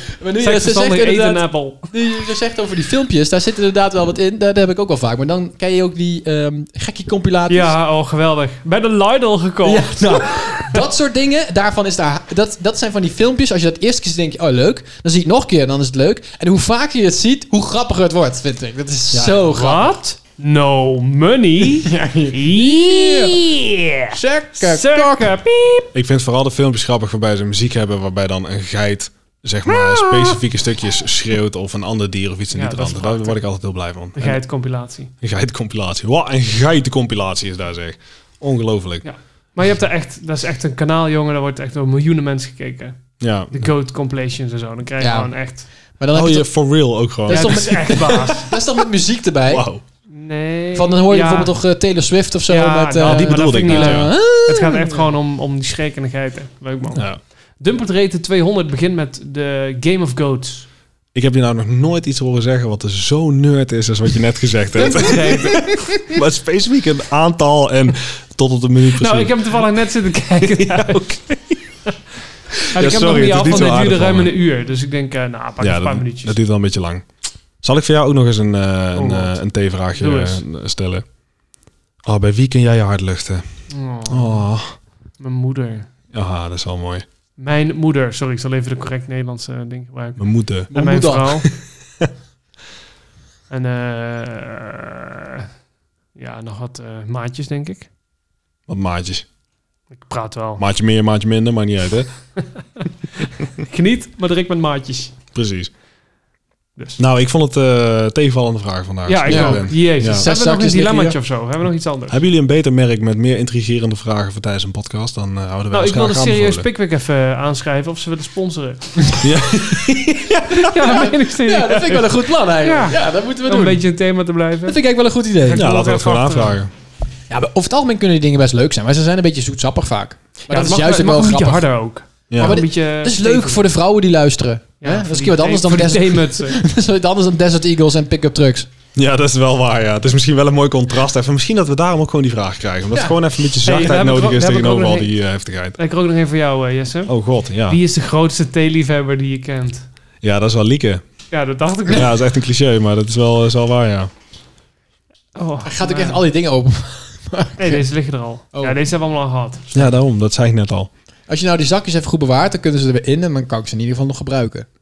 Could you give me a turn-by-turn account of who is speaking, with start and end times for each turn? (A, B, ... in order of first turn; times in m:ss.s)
0:00.2-0:07.7 A
0:00.4-0:01.9 B
0:07.5-0:10.8 B
0:09.6-0:19.9 A
0:19.2-0:25.9 B
0:21.8-0:23.4 A
0:24.1-0:25.3 A
0:25.9-0:34.4 C
0:29.7-0:30.4 B
0:32.5-0:33.4 B
0:34.2-0:35.1 B
0:35.2-0:39.1 C
0:39.0-0:45.7 B
0:43.2-0:43.7 C
0:45.0-0:46.6 A
0:46.1-0:48.1 C
0:47.3-0:49.7 A
0:47.3-0:48.6 B
0:49.5-0:49.8 C
0:50.1-0:51.5 B
0:50.8-0:55.0 A
0:52.5-1:00.7 B
0:53.0-0:54.1 C
0:56.9-0:57.2 C
1:01.1-1:09.4 C
1:04.8-1:06.2 A
1:04.8-1:05.8 B
1:09.0-1:11.2 B
1:10.4-1:11.6 C
1:12.7-1:16.4 B
1:12.7-1:14.3 C
1:15.6-1:17.1 C
1:17.6-1:21.0 C
1:19.0-1:19.3 B
1:19.9-1:20.4 B
1:22.0-1:23.4 C
1:23.7-1:24.4 B
1:24.1-1:24.7 C
1:25.2-1:25.9 B
1:26.1-1:27.0 C
1:27.4-1:31.5 B
1:30.2-1:30.7 C
1:30.7-1:31.5 A
1:33.5-1:35.5 B
1:36.2-1:37.9 B
1:38.7-1:39.2 C
1:40.0-1:40.6 B
1:40.6-1:42.1 C
1:42.8-1:45.2 B
1:45.3-1:45.7 C
1:47.0-1:50.3 C
1:49.1-1:52.2 B
1:49.3-1:51.2 A
1:52.1-1:56.7 C
1:55.7-1:59.2 B
1:59.2-2:00.9 C
2:00.5-2:04.8 B
2:00.8-2:03.8 A
2:04.7-2:05.7 A
2:05.4-2:06.6 B
2:05.6-2:06.7 C
2:07.3-2:11.7 A
2:10.5-2:13.7 B
2:12.3-2:12.6 C
2:12.4-2:18.7 A
2:14.8-2:16.6 B
2:19.0-2:25.8 C
2:23.6-2:25.1 B
2:25.8-2:27.2 B
2:27.1-2:27.8 C
2:27.7-2:29.8 B
2:30.2-2:31.0 C
2:31.3-2:32.1 B
2:31.9-2:34.1 C
2:35.4-2:36.2 B
2:35.6-2:37.8 A
2:37.6-2:39.7 B
2:38.5-2:38.8 A
2:39.7-2:40.9 C
2:41.3-2:44.7 A